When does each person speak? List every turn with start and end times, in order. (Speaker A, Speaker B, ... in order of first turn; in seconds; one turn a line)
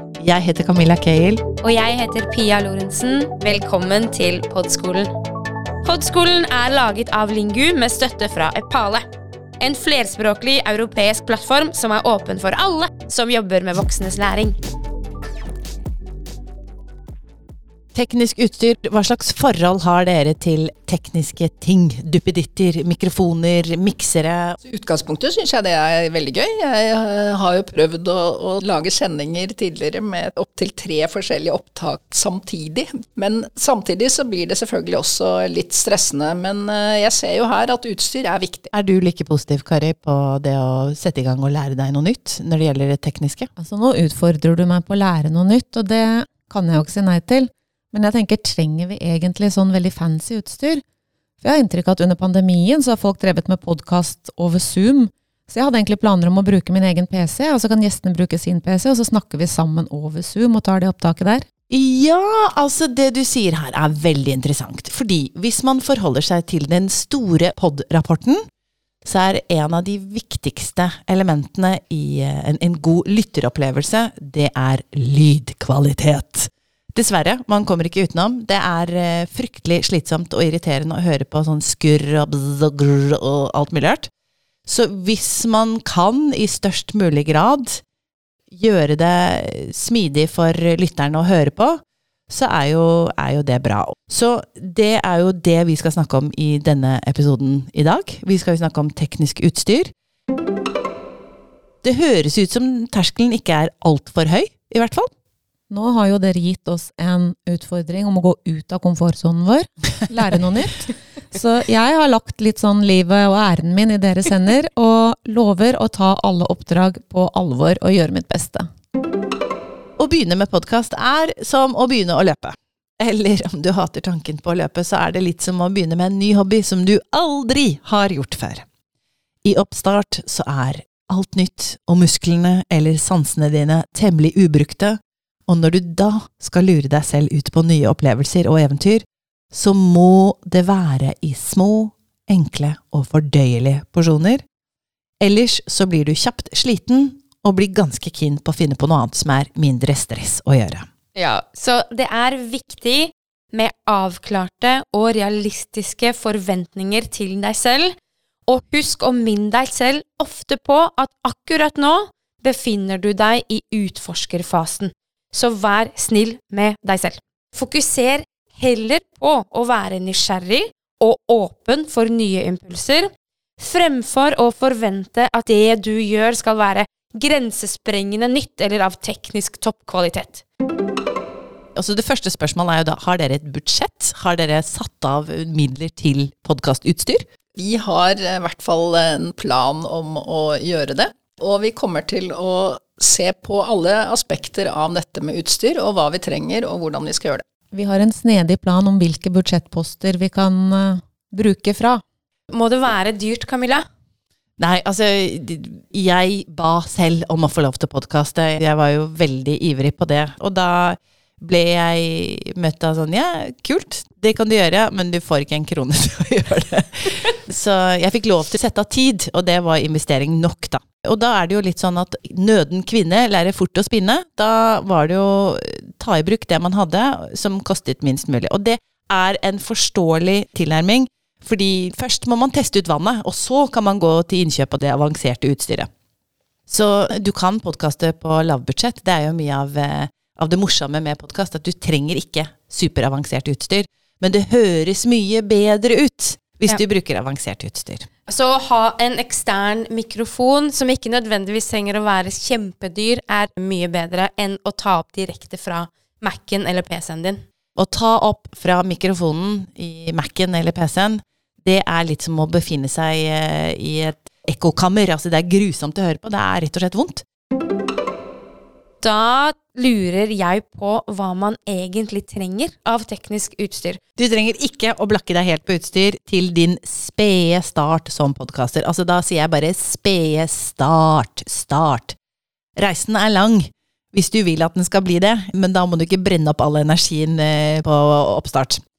Speaker A: 0.2-1.4
Speaker B: 1.6-5.1
Speaker B: 5.8-9.1
Speaker B: 9.6-14.6
Speaker A: 17.9-24.6
Speaker C: 24.6-38.7
Speaker A: 38.7-43.5
Speaker D: 43.6-50.8
Speaker D: 51.4-61.5
Speaker A: 61.7-68.4
Speaker A: 69.0-84.1
Speaker A: 84.7-87.8
Speaker A: 88.5-99.9
Speaker A: 101.8-105.1
Speaker D: 105.7-118.7
Speaker A: 120.0-128.6
Speaker A: 129.4-144.4
Speaker A: 145.2-150.9
Speaker B: 151.2-158.0
Speaker B: 158.5-180.4
Speaker A: 181.8-187.2
Speaker C: 187.6-197.4
Speaker D: 197.7-202.0
Speaker B: 202.5-203.9
Speaker A: 204.6-235.9
Speaker A: 236.7-248.1
Speaker B: 248.3-257.4
Speaker A: 257.8-267.2
Speaker B: 269.0-274.0
Speaker A: 274.2-282.2
Speaker A: 282.8-288.8